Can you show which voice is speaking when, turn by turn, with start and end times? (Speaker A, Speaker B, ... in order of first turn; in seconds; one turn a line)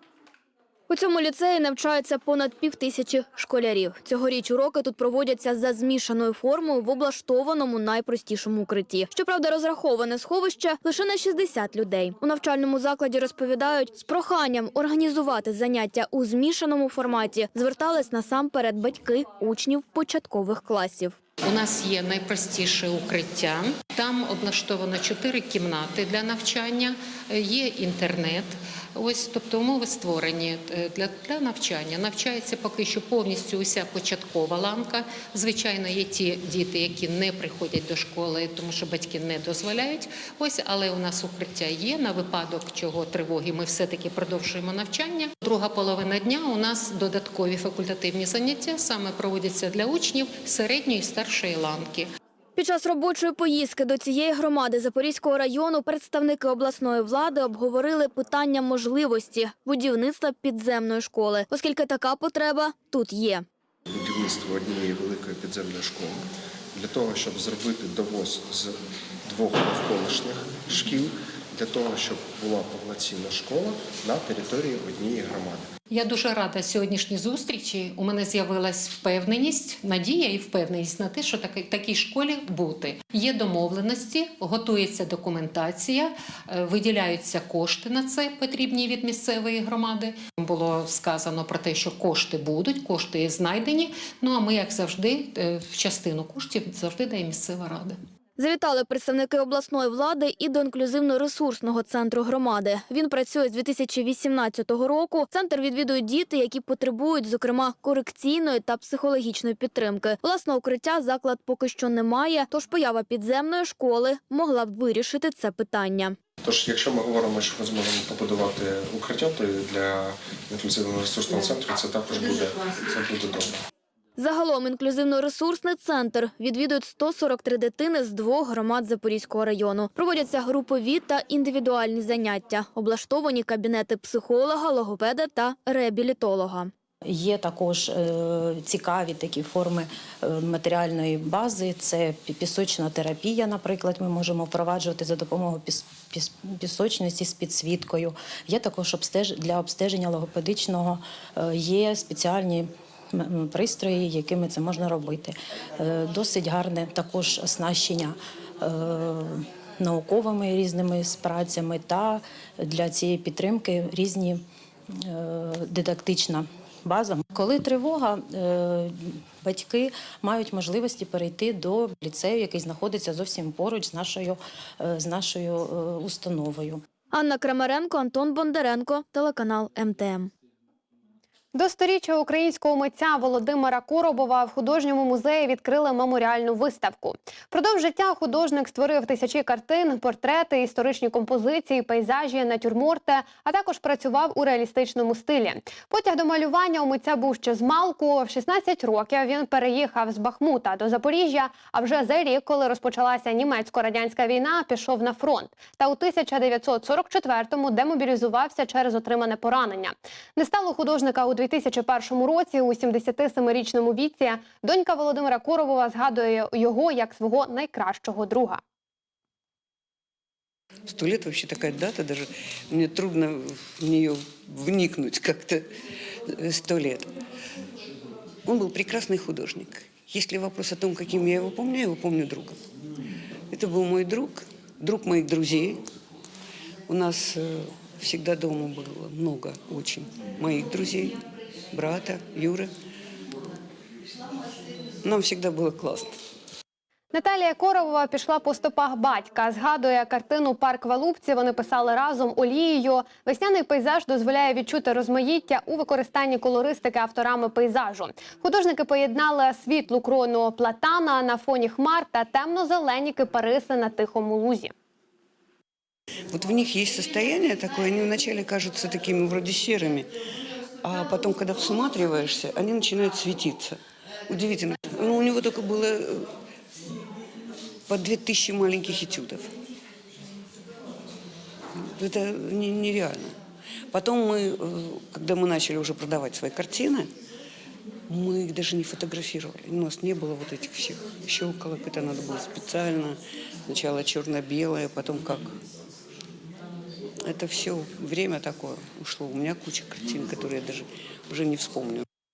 Speaker A: 0.9-21.1
Speaker B: 21.4-52.1
Speaker A: 52.6-63.5
Speaker C: 63.9-75.7
Speaker B: 75.9-98.0
Speaker A: 98.4-116.2
Speaker C: 116.4-123.5
Speaker A: 124.2-136.7
Speaker D: 137.1-176.8
Speaker A: 177.1-180.3
Speaker E: 181.5-218.6
Speaker F: 220.9-225.7
Speaker F: 226.3-227.1
Speaker F: 228.4-232.6
Speaker F: 233.5-235.8
Speaker F: 236.9-241.2
Speaker F: 241.7-242.7
Speaker F: 245.0-246.1
Speaker E: 247.1-264.7
Speaker F: 266.3-270.1
Speaker F: 270.8-276.3
Speaker F: 277.9-279.5
Speaker F: 281.8-283.4
Speaker F: 283.9-287.1
Speaker F: 288.1-295.5
Speaker F: 297.3-302.1